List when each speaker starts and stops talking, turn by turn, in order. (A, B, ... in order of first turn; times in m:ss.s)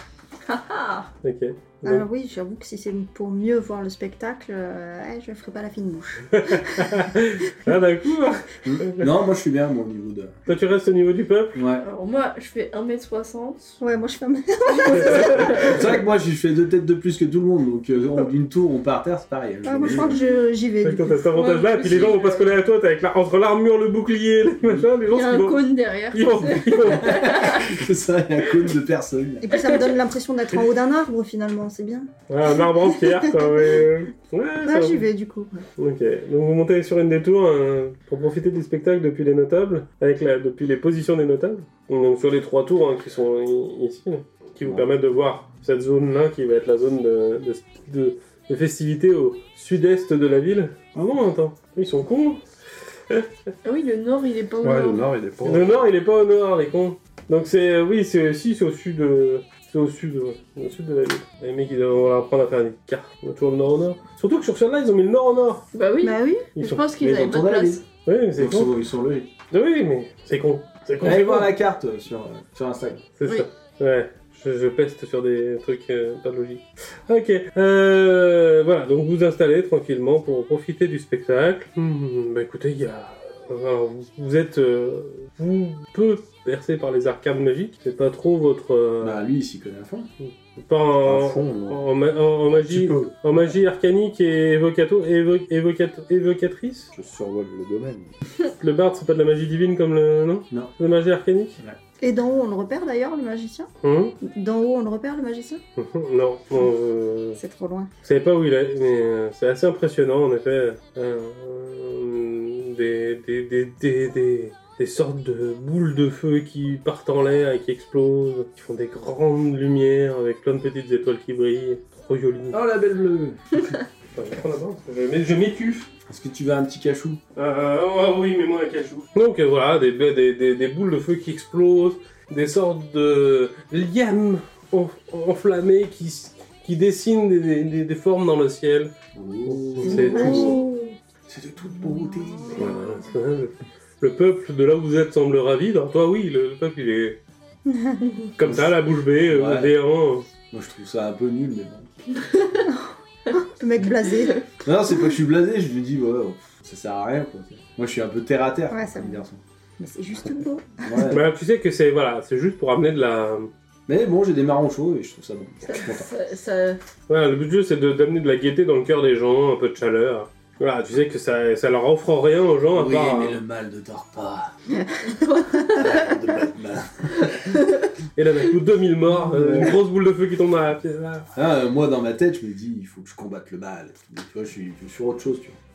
0:00.5-0:01.1 A
0:01.2-0:02.0 B
0:01.8-0:07.1 C
0:06.3-0:09.1 B
0:08.6-0:10.3 D
0:10.4-0:11.6 B
0:11.5-0:11.8 D
0:11.8-0:13.8 A
0:13.8-0:15.8 C
0:15.1-0:15.7 A
0:15.6-0:20.1 D
0:19.6-0:21.3 C
0:20.0-0:20.4 A
0:20.8-0:27.3 B
0:21.3-0:22.6 A
0:24.6-0:24.9 D
0:25.1-0:27.7 A
0:26.9-0:29.5 D
0:29.4-0:32.1 C
0:29.5-0:29.9 A
0:32.3-0:35.0 B
0:33.0-0:33.7 C
0:34.6-0:35.6 C
0:35.8-0:52.4 B
0:53.6-0:55.0 A
0:54.6-0:55.8 E
0:55.4-1:05.6 B
1:05.7-1:07.8 A
1:06.0-1:06.5 C
1:06.5-1:06.8 B
1:07.0-1:07.8 D
1:08.0-1:08.7 B
1:08.4-1:09.3 D
1:09.5-1:11.5 B
1:11.0-1:13.0 D
1:13.2-1:29.2 B
1:29.0-1:30.1 D
1:30.2-1:36.9 B
1:31.0-1:31.8 E
1:32.7-1:33.1 D
1:36.9-1:38.1 E
1:38.6-1:41.6 B
1:42.0-1:43.7 C
1:43.8-1:44.2 B
1:44.2-1:45.6 C
1:45.8-1:47.4 B
1:47.4-1:47.9 C
1:48.0-2:02.6 B
2:02.5-2:03.8 D
2:04.1-2:05.9 B
2:06.1-2:07.2 D
2:07.4-2:18.9 B
2:19.1-2:20.6 D
2:19.4-2:20.6 B
2:19.8-2:20.8 C
2:20.0-2:20.8 A
2:21.3-2:22.7 D
2:22.3-2:22.7 C
2:22.5-2:27.2 B
2:27.7-2:28.0 C
2:28.4-2:30.3 B
2:28.4-2:28.7 D
2:29.3-2:29.7 D
2:30.5-2:31.9 D
2:32.6-2:34.5 C
2:34.6-2:39.4 D
2:38.7-2:39.2 C
2:39.8-2:41.0 C
2:40.8-2:41.2 D
2:41.1-2:43.5 B
2:43.9-2:46.1 D
2:45.6-2:46.8 A
2:47.1-2:53.4 B
2:52.7-2:54.5 D
2:54.8-2:55.8 C
2:55.0-2:55.9 A
2:55.7-2:57.6 D
2:58.1-3:01.3 B
2:59.2-2:59.8 D
3:01.3-3:05.6 D